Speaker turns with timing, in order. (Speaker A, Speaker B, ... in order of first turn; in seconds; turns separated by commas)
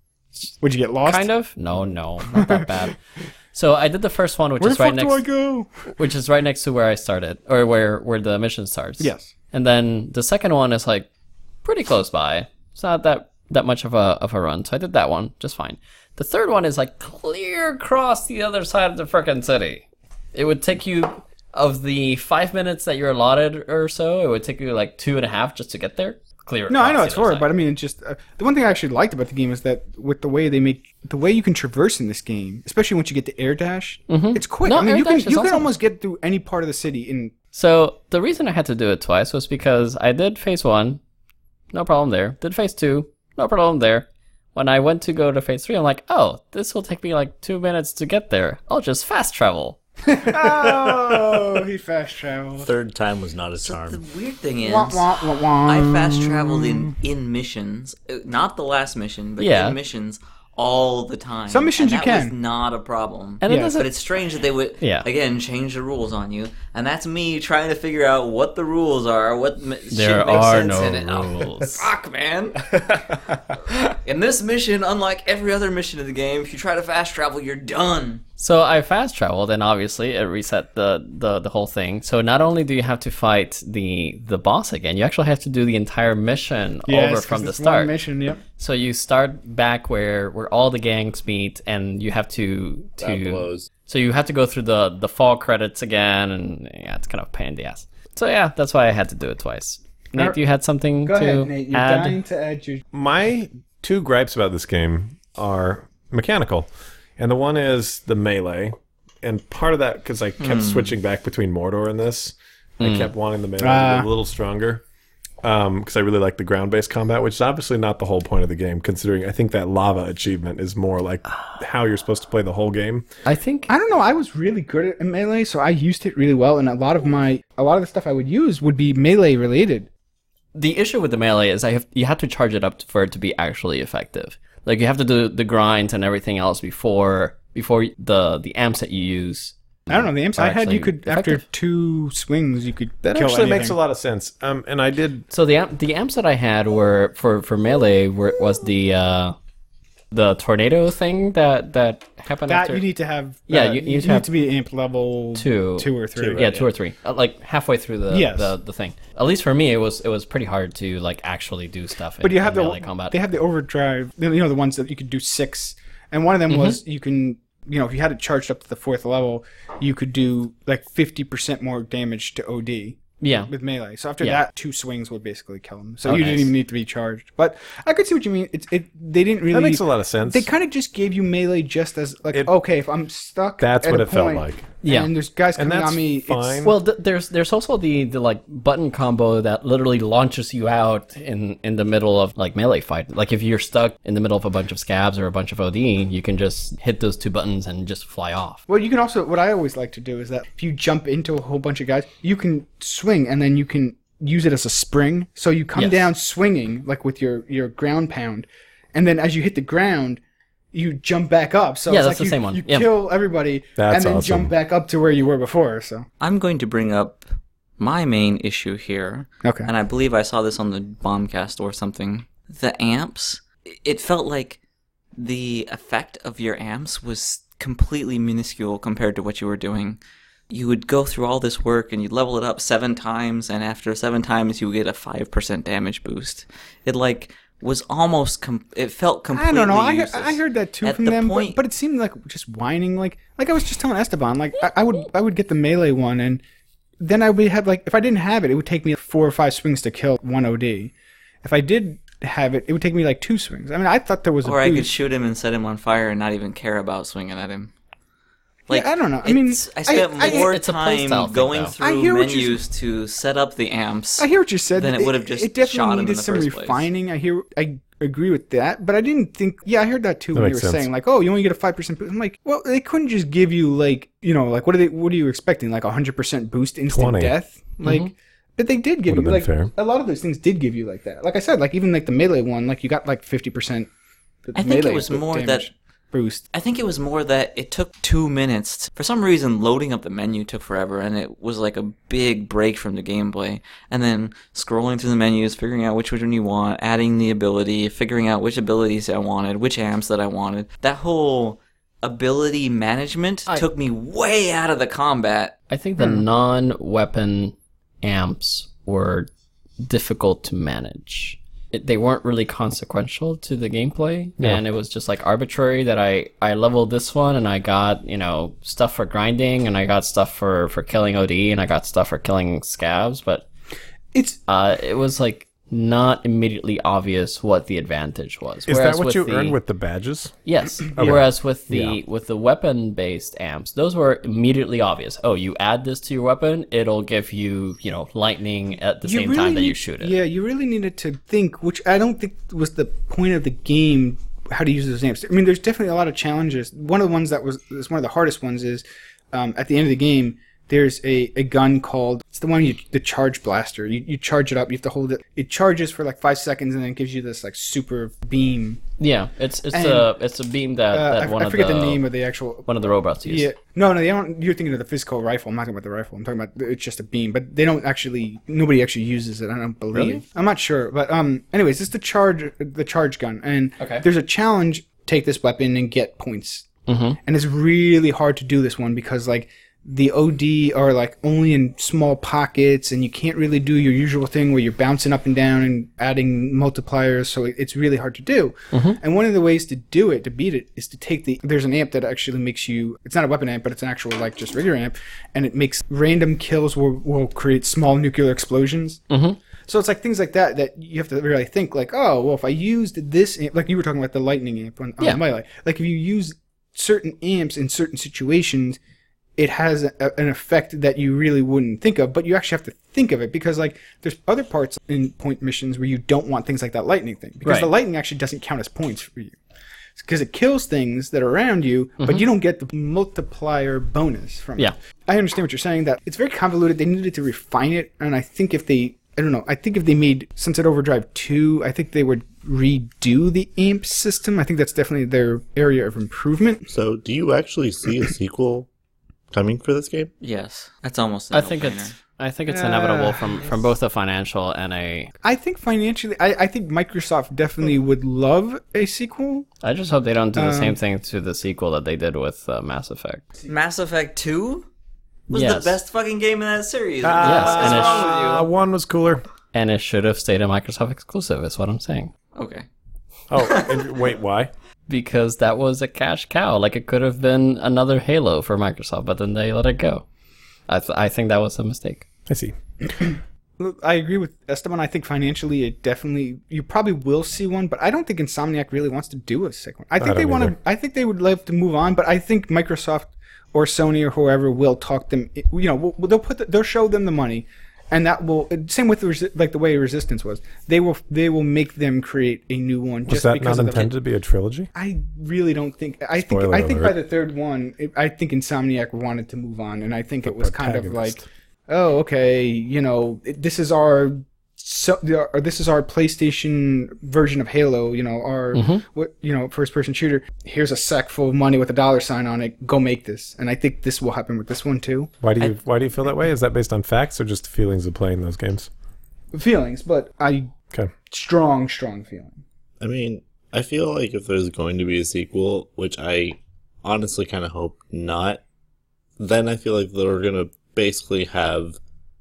Speaker A: 0.6-1.3, Speaker B: 1.0-3.0, Speaker A: 2.3-2.8, Speaker B: 3.5-5.3, Speaker A: 4.6-5.7, Speaker B: 5.8-11.1, Speaker A: 9.0-9.3, Speaker B: 11.6-27.5, Speaker A: 26.7-37.3, Speaker B: 34.1-35.7, Speaker B: 37.5-41.0, Speaker B: 41.7-49.8, Speaker A: 50.0-52.7, Speaker C: 50.6-51.4, Speaker C: 52.6-54.0, Speaker D: 53.6-78.2, Speaker A: 54.6-56.9, Speaker B: 59.4-59.8, Speaker A: 61.5-62.4, Speaker B: 63.4-63.9, Speaker A: 63.5-63.8, Speaker B: 64.8-65.1, Speaker B: 69.9-71.9, Speaker B: 78.4-87.9, Speaker A: 86.9-88.4, Speaker B: 88.6-102.2, Speaker C: 93.0-93.7, Speaker A: 101.0-102.8, Speaker E: 102.9-114.8, Speaker D: 110.4-110.9, Speaker B: 112.8-113.1, Speaker A: 113.6-114.1, Speaker E: 115.4-123.0, Speaker B: 123.2-123.7, Speaker A: 123.7-129.9, Speaker B: 130.5-141.4, Speaker A: 139.9-143.8, Speaker E: 143.0-145.3, Speaker B: 145.3-149.3, Speaker B: 150.1-152.9, Speaker A: 152.5-156.6, Speaker B: 153.5-154.3, Speaker B: 155.3-163.1, Speaker E: 156.1-156.5, Speaker A: 158.1-158.5, Speaker A: 162.2-186.7, Speaker B: 166.5-166.8, Speaker B: 173.2-173.5, Speaker B: 176.0-176.5, Speaker E: 179.5-180.5, Speaker E: 183.6-184.8, Speaker B: 184.8-185.1, Speaker E: 185.5-186.8, Speaker B: 186.6-198.6, Speaker A: 198.7-210.2, Speaker B: 205.7-206.1, Speaker A: 210.7-216.1, Speaker B: 211.9-212.9, Speaker E: 213.8-214.5, Speaker D: 216.2-217.2, Speaker D: 217.8-224.6, Speaker A: 219.4-219.7, Speaker D: 225.2-241.6, Speaker A: 239.3-246.4, Speaker A: 247.0-254.9, Speaker D: 254.4-257.7, Speaker D: 258.7-266.9, Speaker A: 258.7-260.5, Speaker B: 259.9-261.7, Speaker A: 261.8-262.6, Speaker A: 264.2-283.9, Speaker E: 270.3-270.9, Speaker E: 276.9-277.3, Speaker B: 277.8-278.1, Speaker E: 279.1-279.7, Speaker A: 284.5-286.4, Speaker D: 284.5-285.7, Speaker D: 286.5-305.6, Speaker B: 305.7-309.3, Speaker A: 306.0-306.2, Speaker B: 309.8-323.4, Speaker A: 324.1-324.4, Speaker B: 324.5-329.6, Speaker E: 328.7-330.4, Speaker B: 330.4-340.1, Speaker E: 330.9-332.0, Speaker A: 339.0-358.8, Speaker B: 359.0-362.1, Speaker A: 359.7-360.1, Speaker A: 360.9-376.7, Speaker B: 362.6-363.5, Speaker B: 369.9-370.2, Speaker B: 373.8-374.0, Speaker B: 376.9-377.2, Speaker A: 377.2-399.0, Speaker B: 388.7-389.0, Speaker B: 399.1-399.4, Speaker A: 399.6-408.8, Speaker A: 409.4-419.3, Speaker B: 417.4-417.7, Speaker A: 419.9-436.6, Speaker B: 422.0-422.3, Speaker C: 436.7-438.7, Speaker C: 439.3-440.1, Speaker D: 440.2-441.9, Speaker B: 441.3-445.1, Speaker A: 442.5-443.6, Speaker A: 445.2-449.5, Speaker B: 449.6-453.2, Speaker A: 450.3-450.8, Speaker D: 453.4-454.7, Speaker D: 455.3-458.5, Speaker B: 455.3-455.8, Speaker E: 457.0-459.2, Speaker B: 457.2-458.1, Speaker A: 457.6-458.1, Speaker B: 459.5-462.1, Speaker D: 462.3-462.6, Speaker E: 463.3-464.5, Speaker D: 463.3-463.9, Speaker B: 464.9-470.0, Speaker B: 470.7-472.1, Speaker E: 472.3-472.6, Speaker A: 473.6-493.9, Speaker E: 480.0-480.5, Speaker E: 493.1-494.7, Speaker A: 494.7-515.1, Speaker E: 496.2-497.0, Speaker E: 500.2-501.2, Speaker B: 508.5-508.8, Speaker E: 515.2-518.7, Speaker A: 519.3-520.5, Speaker A: 521.1-522.4, Speaker C: 522.8-528.4, Speaker C: 529.2-531.8